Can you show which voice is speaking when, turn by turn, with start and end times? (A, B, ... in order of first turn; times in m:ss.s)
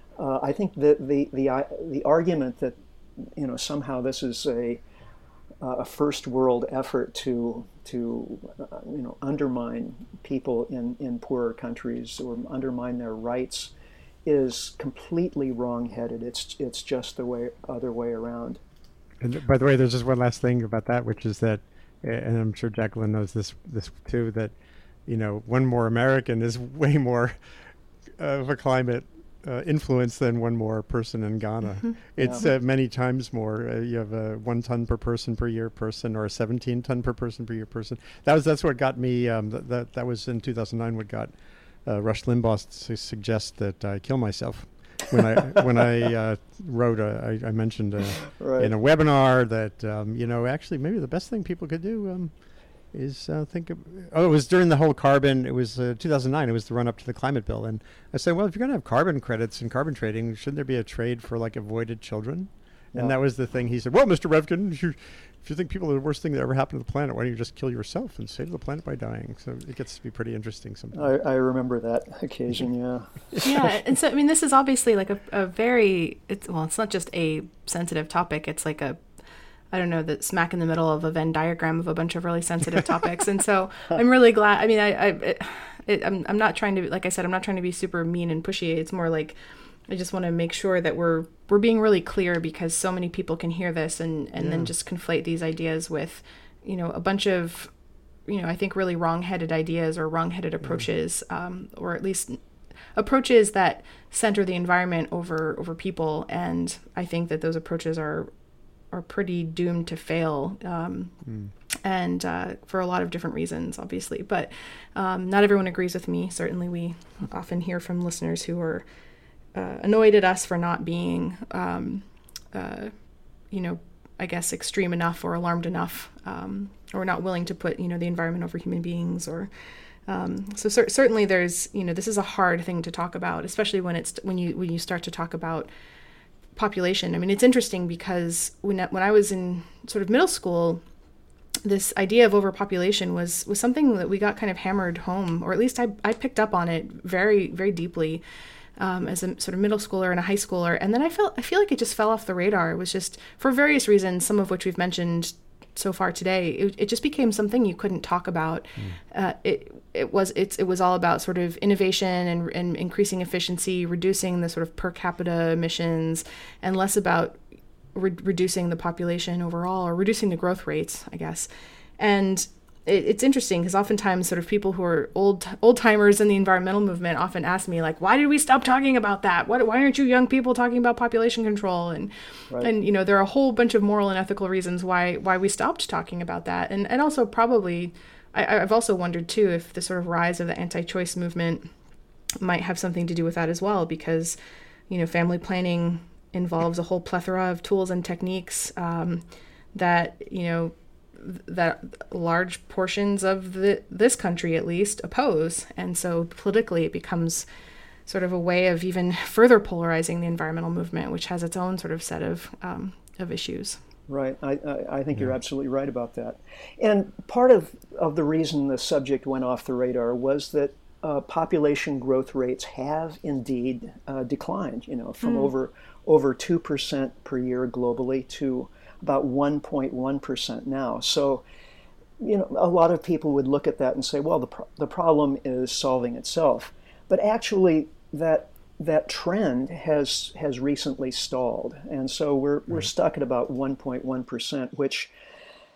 0:00.2-0:04.8 A
0:05.6-0:13.7 A
0:14.2-0:18.6 A
0:19.2-0:24.5 B
0:25.1-0:27.4 B
0:28.2-0:41.3 B
0:32.2-0:32.5 A
0:41.8-0:52.3 B
0:48.3-0:48.7 A
0:52.9-1:11.1 B
1:10.9-1:13.5 A
1:13.4-1:19.0 C
1:19.7-1:29.4 C
1:29.9-1:37.7 C
1:38.3-1:42.4 C
1:42.9-1:48.3 C
1:48.9-1:51.1 C
1:51.2-1:51.5 B
1:51.8-1:58.8 C
1:59.5-2:02.9 C
2:03.5-2:09.5 C
2:10.0-2:15.7 C
2:16.6-2:20.8 C
2:21.6-2:28.2 C
2:28.8-2:47.4 C
2:47.9-2:51.5 C
2:52.0-3:11.7 C
3:12.4-3:14.4 C
3:14.9-3:27.4 C
3:28.1-3:33.8 C
3:34.1-3:51.4 A
3:52.2-4:05.1 A